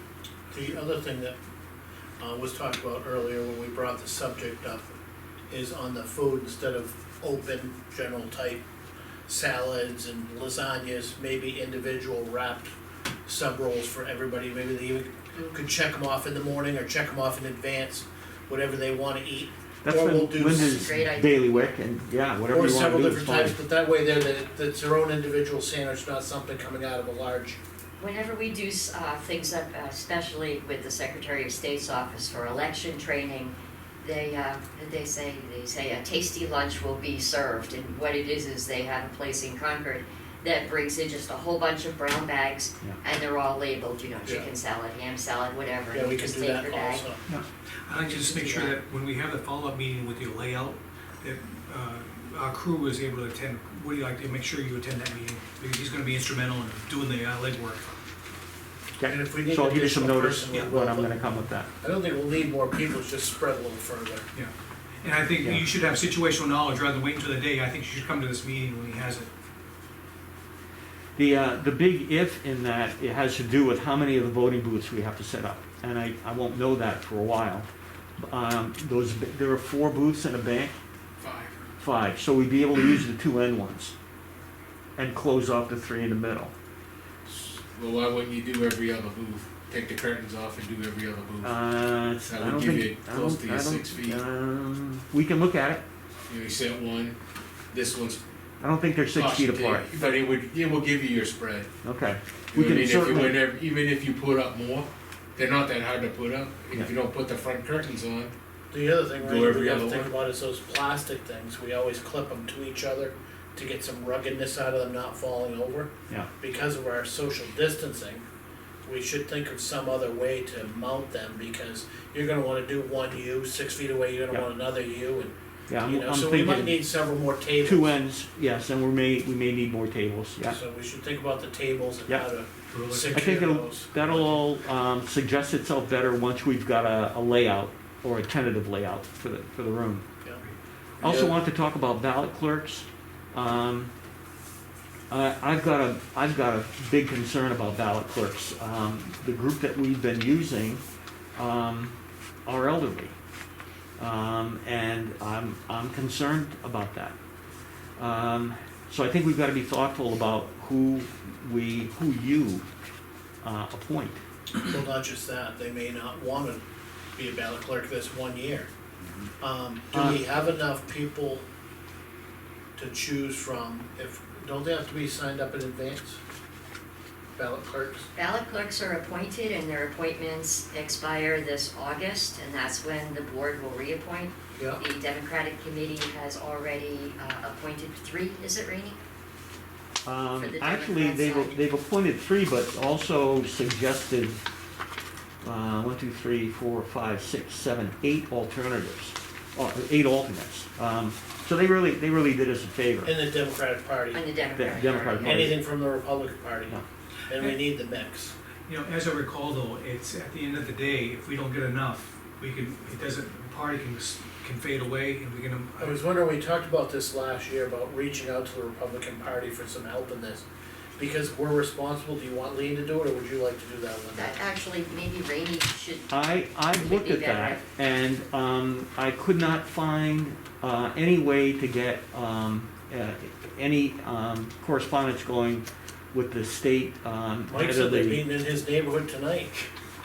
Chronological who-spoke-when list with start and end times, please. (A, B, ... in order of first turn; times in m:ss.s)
0:00.5-0:01.4 A
0:02.2-0:04.9 A
0:05.5-0:08.6 A
0:09.3-0:12.7 A
0:13.2-0:20.8 A
0:19.8-0:23.6 B
0:20.7-0:21.7 C
0:22.5-0:27.6 A
0:28.0-0:47.0 C
0:45.9-0:47.2 A
0:47.9-0:57.9 D
0:48.1-0:48.4 A
0:59.0-1:01.7 B
0:59.0-1:01.1 A
1:01.8-1:04.3 A
1:04.3-1:09.3 D
1:11.2-1:17.7 B
1:18.2-1:20.8 B
1:21.2-1:21.6 E
1:21.8-1:23.9 B
1:25.0-1:26.5 B
1:27.2-1:31.6 E
1:31.4-1:35.8 B
1:32.2-1:34.2 E
1:36.3-1:37.2 E
1:37.7-1:38.2 E
1:38.6-1:39.9 B
1:39.1-1:41.7 E
1:41.8-1:43.4 B
1:42.5-1:48.3 E
1:48.7-1:58.2 A
1:49.2-1:50.1 E
1:58.8-2:05.3 A
2:05.7-2:06.8 B
2:05.8-2:07.9 A
2:07.6-2:10.6 B
2:10.4-2:14.4 A
2:12.7-2:13.2 D
2:13.1-2:20.0 B
2:21.0-2:23.9 B
2:21.0-2:21.3 E
2:25.1-2:30.8 B
2:31.4-2:31.9 B
2:32.5-2:33.2 B
2:34.0-2:37.2 B
2:38.0-2:42.7 B
2:43.4-2:44.2 B
2:44.7-2:46.6 A
2:47.2-2:48.7 A
2:49.4-2:51.4 A
2:49.9-2:50.2 B
2:52.8-2:56.2 A
2:57.4-2:58.1 A
2:58.2-3:04.3 C
3:04.5-3:04.8 A
3:04.8-3:09.0 C
3:10.0-3:14.4 B
3:10.4-3:11.6 C
3:15.4-3:23.1 B
3:23.0-3:24.2 A
3:24.1-3:25.3 C
3:24.6-3:25.6 B
3:25.2-3:28.3 A
3:28.7-3:36.0 D
3:35.8-3:40.4 A
3:41.0-3:44.4 A
3:44.1-3:46.1 C
3:46.1-3:58.2 B
3:46.7-3:47.6 C
3:57.5-3:59.6 A